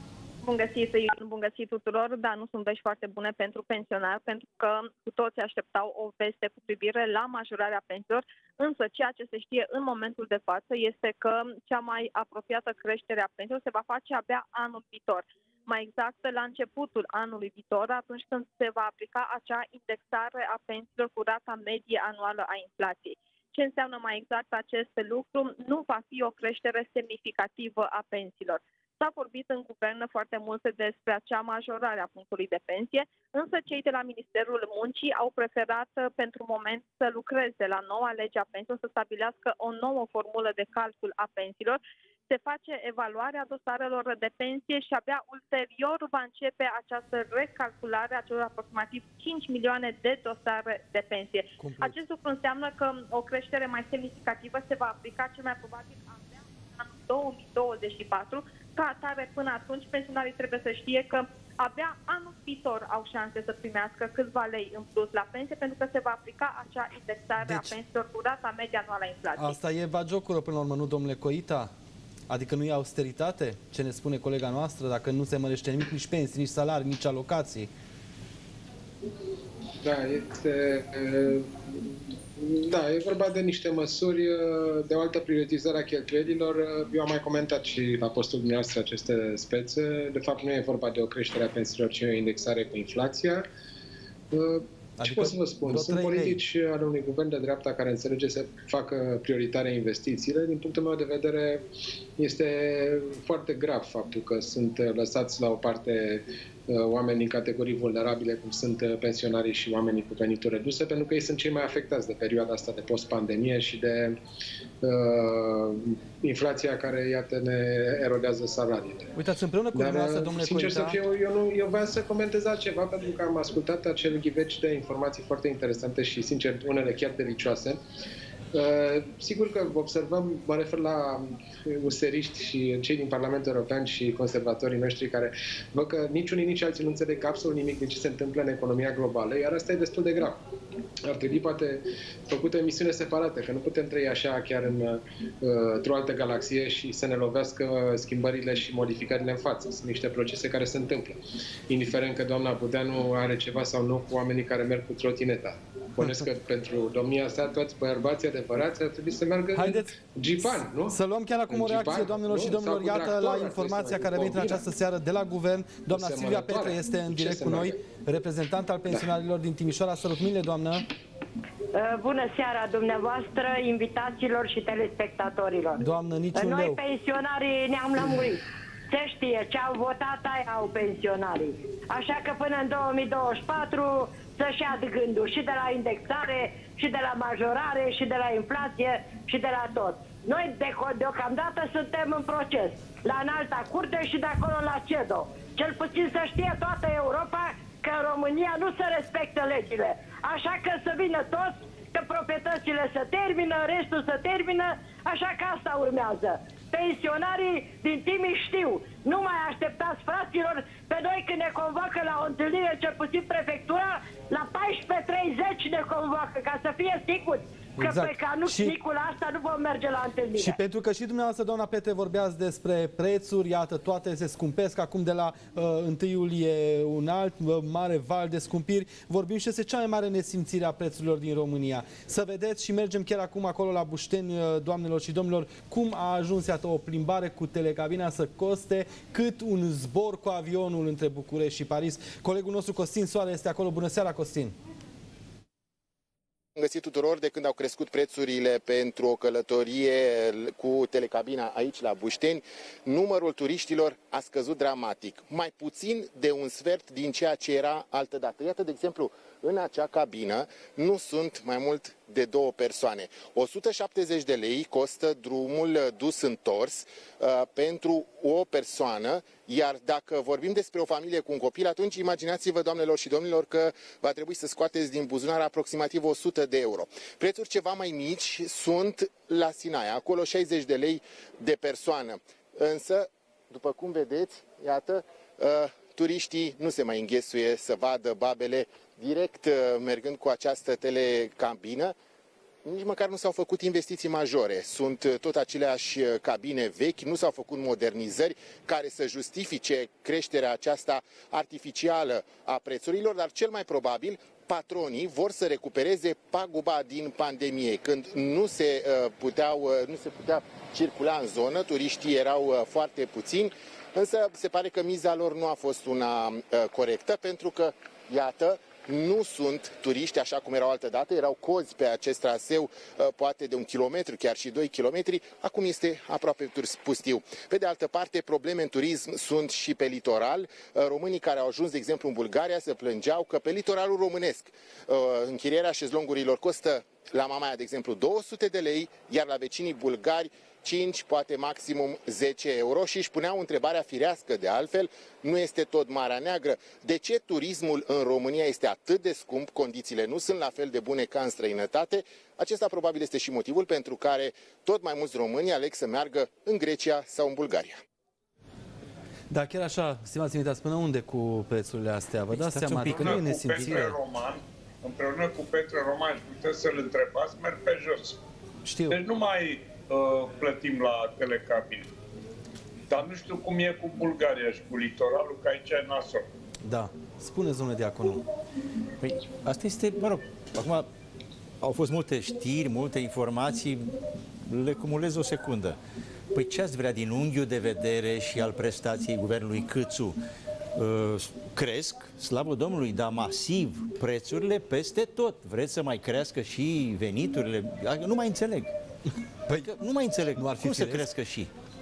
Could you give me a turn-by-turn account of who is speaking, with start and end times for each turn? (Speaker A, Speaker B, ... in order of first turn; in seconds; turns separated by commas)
Speaker A: 0.4-69.6, Speaker B: 51.6-52.0, Speaker B: 67.4-67.8, Speaker B: 69.4-71.7, Speaker B: 72.3-77.7, Speaker C: 79.8-93.5, Speaker C: 94.3-101.6, Speaker B: 95.0-96.4, Speaker C: 102.2-114.2, Speaker C: 114.8-119.1, Speaker B: 119.1-121.0, Speaker C: 119.7-127.8, Speaker C: 128.5-140.4, Speaker C: 141.1-160.9, Speaker B: 156.0-156.2, Speaker B: 159.6-159.9, Speaker B: 160.4-170.8, Speaker C: 161.5-164.6, Speaker C: 165.9-167.8, Speaker D: 171.7-175.8, Speaker B: 175.8-176.8, Speaker D: 176.3-220.6, Speaker B: 217.8-218.8, Speaker B: 220.3-244.6, Speaker E: 246.6-291.9, Speaker E: 292.6-357.8, Speaker B: 359.3-363.9, Speaker F: 362.3-363.8, Speaker G: 362.9-368.2, Speaker B: 368.6-369.0, Speaker G: 368.9-371.9, Speaker G: 372.9-376.2, Speaker B: 376.6-378.2, Speaker F: 379.0-380.9, Speaker F: 381.6-383.9, Speaker F: 384.4-385.8, Speaker F: 386.3-390.2, Speaker F: 390.8-398.7, Speaker F: 399.5-401.5, Speaker B: 400.3-401.1